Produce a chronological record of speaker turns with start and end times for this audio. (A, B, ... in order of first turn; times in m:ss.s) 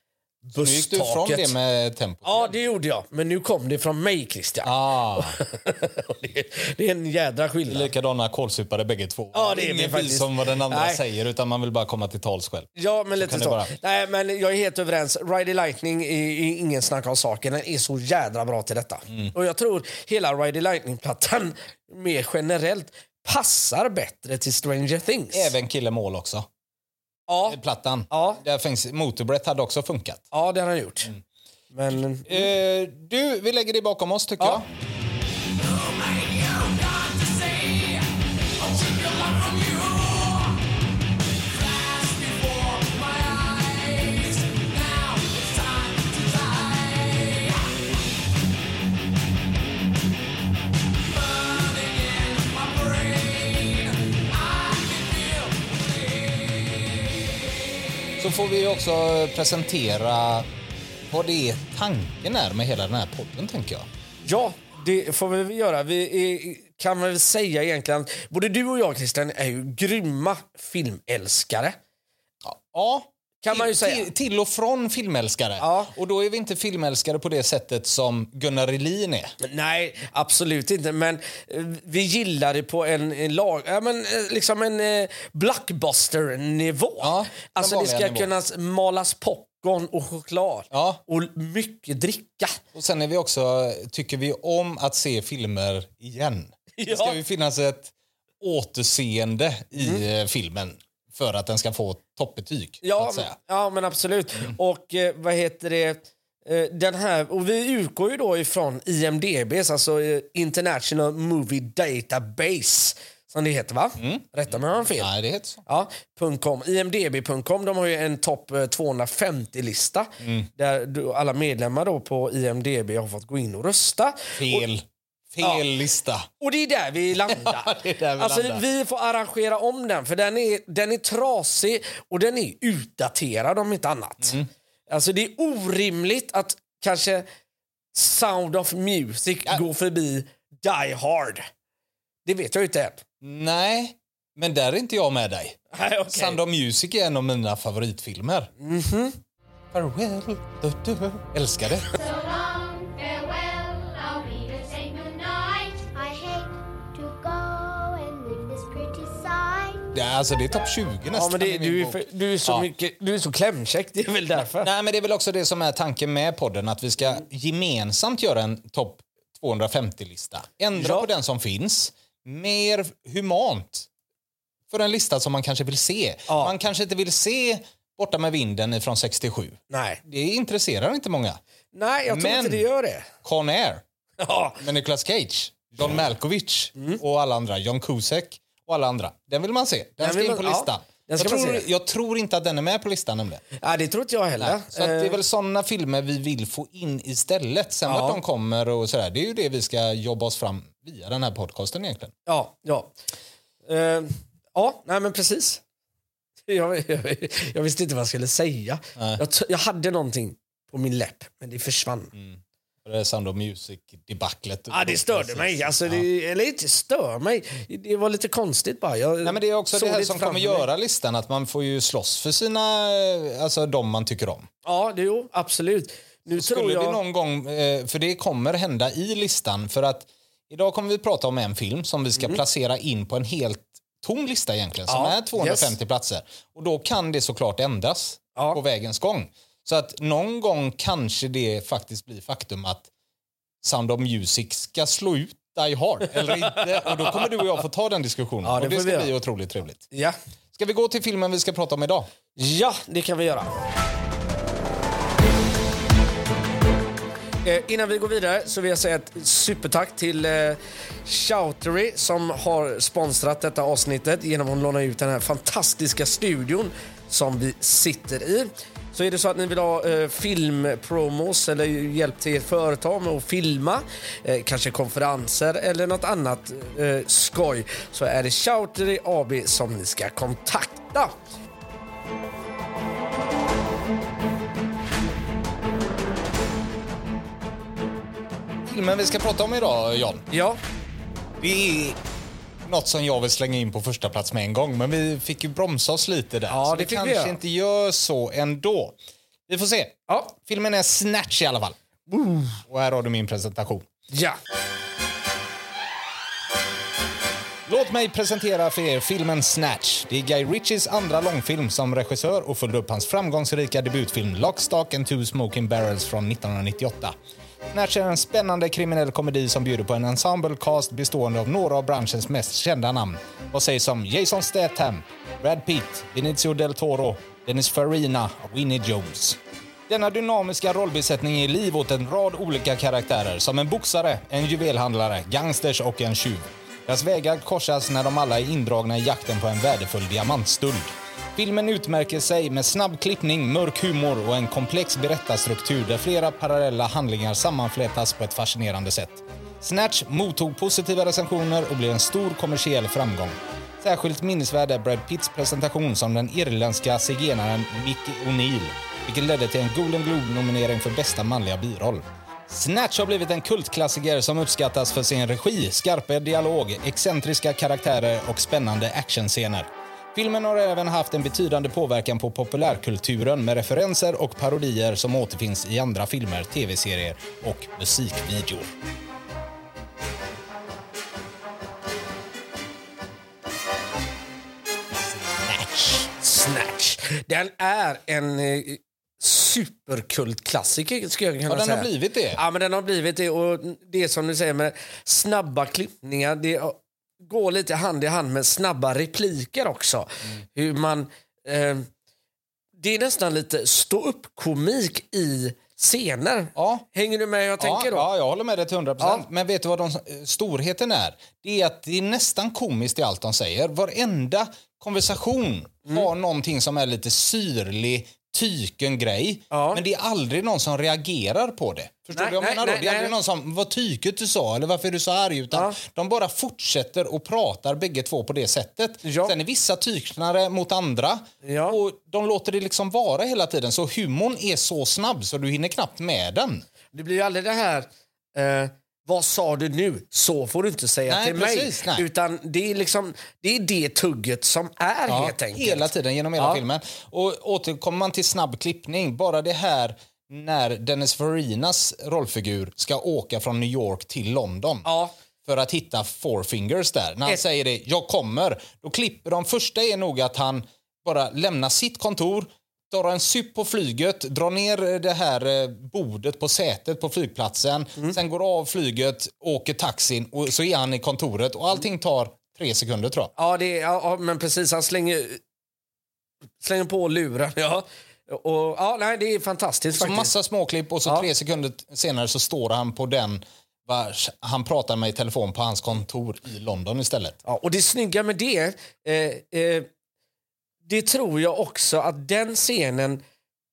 0:00.4-0:01.5 A
0:00.5-0:02.5 B
0:02.2-0:07.9 A
0:04.6-0:05.4 B
0:07.7-0:13.7 B
0:09.3-0:11.0 A
0:12.8-0:25.5 A
0:25.3-0:26.5 B
0:27.3-0:27.6 A
0:27.4-0:30.2 B
0:28.1-0:28.4 A
0:30.3-0:31.1 A
0:31.7-0:32.5 A
0:32.2-0:34.7 B
0:36.2-0:37.7 A
0:38.7-0:40.1 A
0:42.0-0:43.5 A
0:44.0-0:46.0 A
0:51.8-0:53.8 A
0:55.0-0:55.4 A
0:58.2-1:00.5 B
1:01.1-1:03.8 B
1:04.2-1:11.8 A
1:12.4-1:19.3 B
1:13.4-1:14.1 A
1:15.6-1:15.9 A
1:19.4-1:32.6 A
1:27.0-1:28.3 B
1:30.7-1:31.0 B
1:32.7-1:43.3 B
1:36.8-1:37.2 A
1:42.8-1:55.1 A
1:54.0-1:54.2 B
1:54.9-1:55.6 B
1:55.6-2:04.6 A
2:00.2-2:00.5 B
2:04.3-2:06.3 B
2:06.4-2:14.4 A
2:07.2-2:08.6 B
2:14.2-2:14.5 B
2:14.9-2:17.2 A
2:17.9-2:21.5 A
2:22.2-2:23.0 A
2:23.2-2:28.5 B
2:25.7-2:26.4 A
2:28.6-2:29.2 A
2:29.7-2:31.9 B
2:31.9-2:39.9 C
2:39.9-2:42.7 B
2:41.1-2:44.7 A
2:44.5-2:53.9 B
2:50.8-2:51.1 A
2:54.7-3:01.4 B
2:56.3-2:56.5 A
2:59.7-3:00.0 A
3:01.7-3:03.1 A
3:02.1-3:02.6 B
3:03.2-3:03.8 B
3:04.2-3:04.6 A
3:04.6-3:13.4 B
3:10.0-3:11.6 A
3:13.6-3:15.2 A
3:14.4-3:22.1 B
3:17.9-3:18.2 A
3:22.2-3:22.9 A
3:23.6-3:25.6 A
3:26.5-3:32.1 A
3:29.0-3:29.2 B
3:32.1-3:36.0 B
3:34.7-3:40.6 A
3:39.2-3:44.5 B
3:44.6-3:47.0 A
3:46.3-4:02.9 B
3:54.9-3:55.7 A
4:03.6-4:09.8 B
4:06.2-4:07.3 A
4:08.4-4:09.1 A
4:09.9-4:10.2 A
4:10.5-4:12.1 B
4:12.4-4:13.5 A
4:17.4-4:41.2 A
4:48.6-4:50.2 B
4:50.3-4:50.6 A
4:51.4-4:52.0 B
4:52.6-4:59.0 B
4:56.5-4:57.4 A
4:59.5-5:01.8 B
5:00.1-5:00.3 A
5:02.1-5:02.6 A
5:02.6-5:03.9 B
5:04.1-5:04.4 A
5:07.7-5:17.1 B
5:17.7-5:29.4 B
5:29.9-6:18.7 B
6:25.0-6:26.1 B
6:26.2-6:41.9 A
6:31.5-6:32.4 B
6:42.8-6:48.1 A
6:46.5-6:46.8 B
6:47.6-7:16.6 B
6:49.0-6:49.2 A
6:59.5-6:59.8 A
7:02.1-7:03.1 A
7:05.5-7:05.8 A
7:09.0-7:09.3 A
7:11.4-7:11.8 A
7:16.9-7:26.6 A
7:21.1-7:22.0 B
7:25.1-7:34.9 B
7:34.8-7:35.1 A
7:35.4-7:53.3 B
7:53.4-7:55.4 A
7:56.6-8:00.3 A
7:59.9-8:07.4 B
8:07.4-8:09.9 A
8:10.8-8:13.2 A